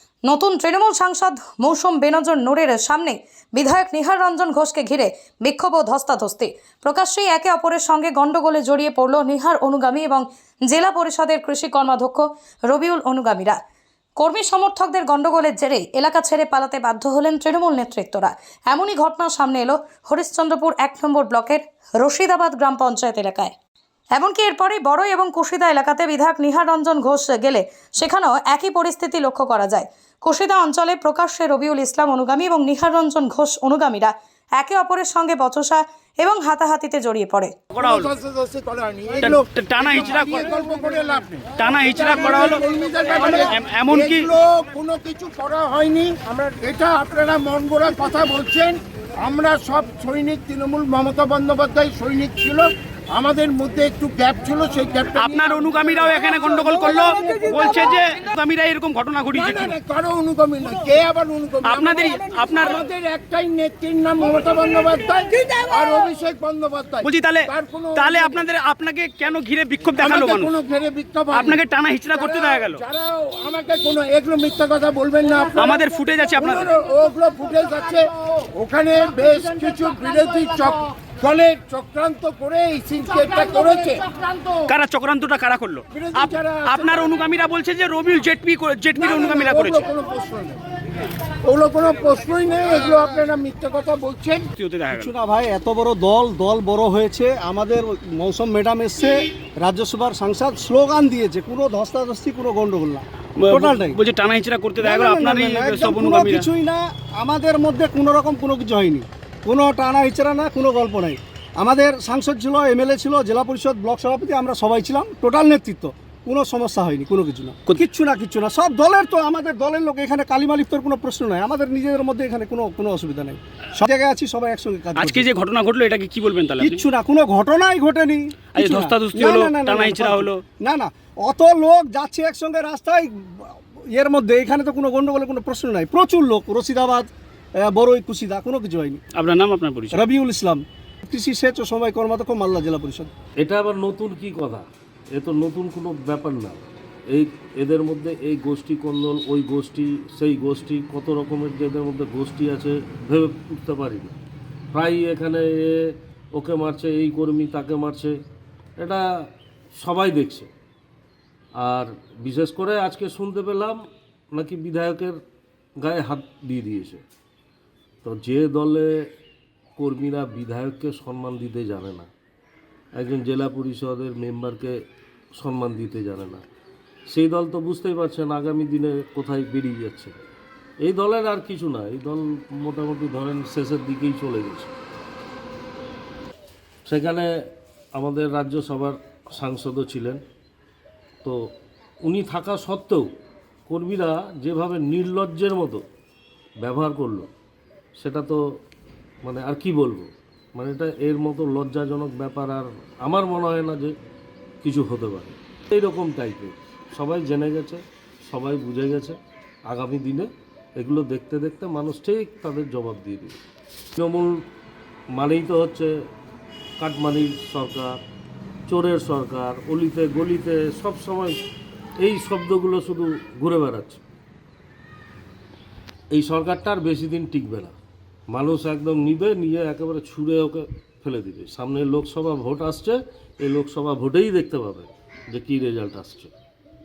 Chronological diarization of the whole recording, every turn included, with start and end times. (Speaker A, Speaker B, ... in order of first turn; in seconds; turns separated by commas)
Speaker A: 0.2-13.6, Speaker A: 14.2-23.5, Speaker A: 24.1-37.5, Speaker B: 37.7-38.1, Speaker C: 37.8-39.4, Speaker B: 39.1-40.6, Speaker C: 39.9-55.5, Speaker B: 41.6-44.3, Speaker B: 55.1-59.8, Speaker D: 57.1-57.7, Speaker C: 59.3-68.4, Speaker B: 61.6-62.8, Speaker B: 67.0-70.6, Speaker C: 70.0-71.5, Speaker B: 71.3-72.8, Speaker C: 72.2-75.7, Speaker B: 75.5-76.7, Speaker C: 76.4-78.1, Speaker C: 78.6-84.0, Speaker B: 84.7-89.9, Speaker C: 85.9-87.1, Speaker C: 89.0-90.6, Speaker C: 91.5-94.4, Speaker B: 94.5-95.1, Speaker D: 94.9-104.0, Speaker B: 103.4-106.5, Speaker D: 104.8-125.2, Speaker B: 125.0-126.8, Speaker D: 126.6-137.1, Speaker B: 128.5-130.4, Speaker D: 137.6-139.0, Speaker B: 139.1-140.0, Speaker D: 139.9-143.1, Speaker E: 143.4-154.2, Speaker E: 154.7-155.7, Speaker E: 156.3-158.1, Speaker E: 158.8-159.0, Speaker E: 159.8-160.5, Speaker E: 161.6-163.8, Speaker E: 164.3-165.2, Speaker E: 165.8-167.0, Speaker E: 168.0-168.9, Speaker E: 169.8-172.1, Speaker E: 172.9-174.7, Speaker E: 175.4-176.4, Speaker E: 177.1-180.1, Speaker E: 180.8-184.7, Speaker E: 186.8-187.3, Speaker E: 187.9-190.2, Speaker E: 192.1-193.0, Speaker E: 193.7-195.8, Speaker E: 196.6-197.3, Speaker E: 198.0-198.4, Speaker E: 199.2-203.9, Speaker E: 204.6-209.2, Speaker E: 209.7-210.3, Speaker E: 210.8-213.4, Speaker E: 213.9-214.3, Speaker E: 215.1-215.9, Speaker E: 216.8-217.9, Speaker E: 218.7-221.4, Speaker E: 222.0-224.0, Speaker E: 226.1-227.7, Speaker E: 228.3-236.3